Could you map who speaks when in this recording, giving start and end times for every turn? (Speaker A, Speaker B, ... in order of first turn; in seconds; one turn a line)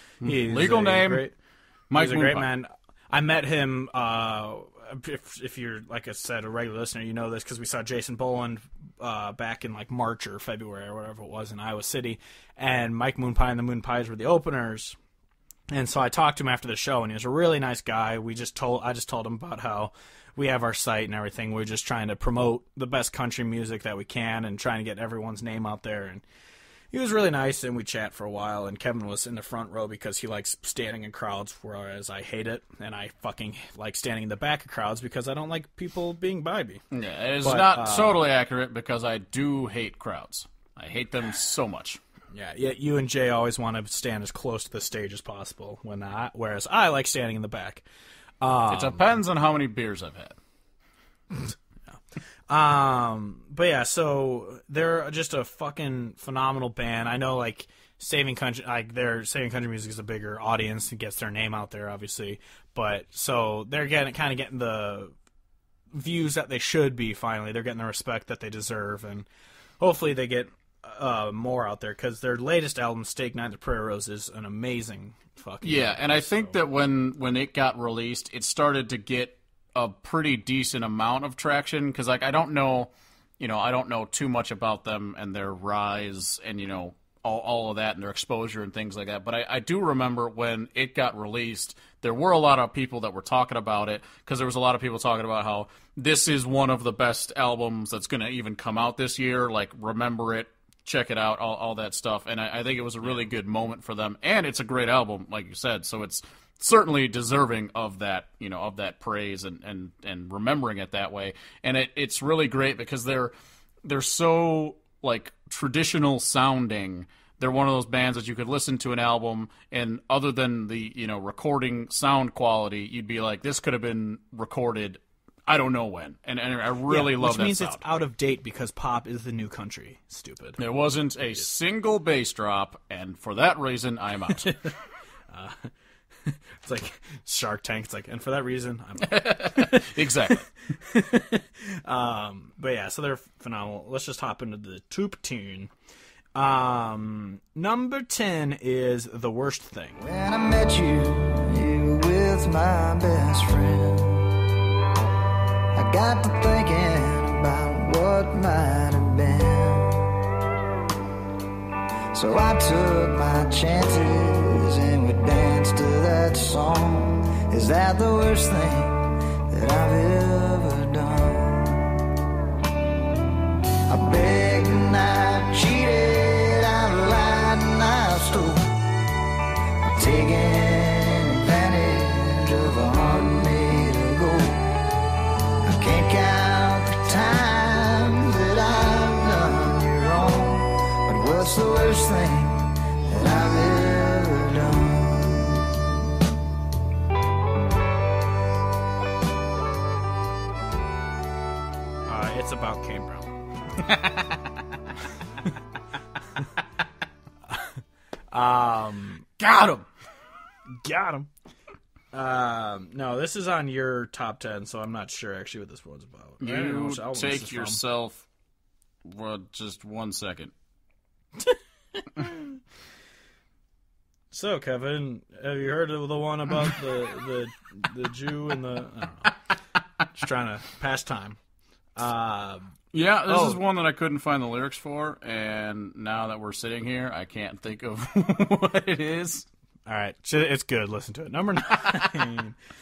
Speaker A: 0.2-1.3
Speaker B: 0.2-1.3
Speaker A: 1.9-2.5
Speaker B: 1.9-15.0
Speaker B: 15.7-26.2
Speaker B: 26.9-36.8
Speaker A: 36.9-42.0
Speaker B: 37.4-38.2
Speaker B: 42.3-47.9
Speaker B: 48.4-49.1
Speaker A: 48.7-50.4
Speaker B: 52.5-65.1
Speaker B: 65.9-69.3
Speaker B: 69.8-76.6
Speaker A: 75.6-113.3
Speaker A: 113.8-127.8
Speaker B: 126.9-130.6
Speaker A: 130.6-134.6
Speaker B: 135.3-135.7
Speaker B: 136.3-140.1
Speaker A: 139.0-140.5
Speaker B: 140.7-145.7
Speaker B: 146.3-150.0
Speaker C: 150.0-154.4
Speaker C: 155.7-160.2
Speaker C: 162.1-172.0
Speaker C: 173.9-178.7
Speaker C: 179.8-184.7
Speaker C: 185.6-196.0
Speaker B: 202.1-203.3
Speaker B: 208.3-209.3
Speaker A: 209.4-209.8
Speaker B: 210.8-211.3
Speaker B: 212.1-217.8
Speaker A: 216.4-218.2
Speaker A: 219.1-220.5
Speaker B: 221.5-222.5
Speaker B: 224.3-229.3
Speaker B: 230.1-231.4
Speaker B: 232.0-232.7
Speaker A: 232.9-239.5
Speaker B: 233.3-233.6
Speaker B: 239.9-242.6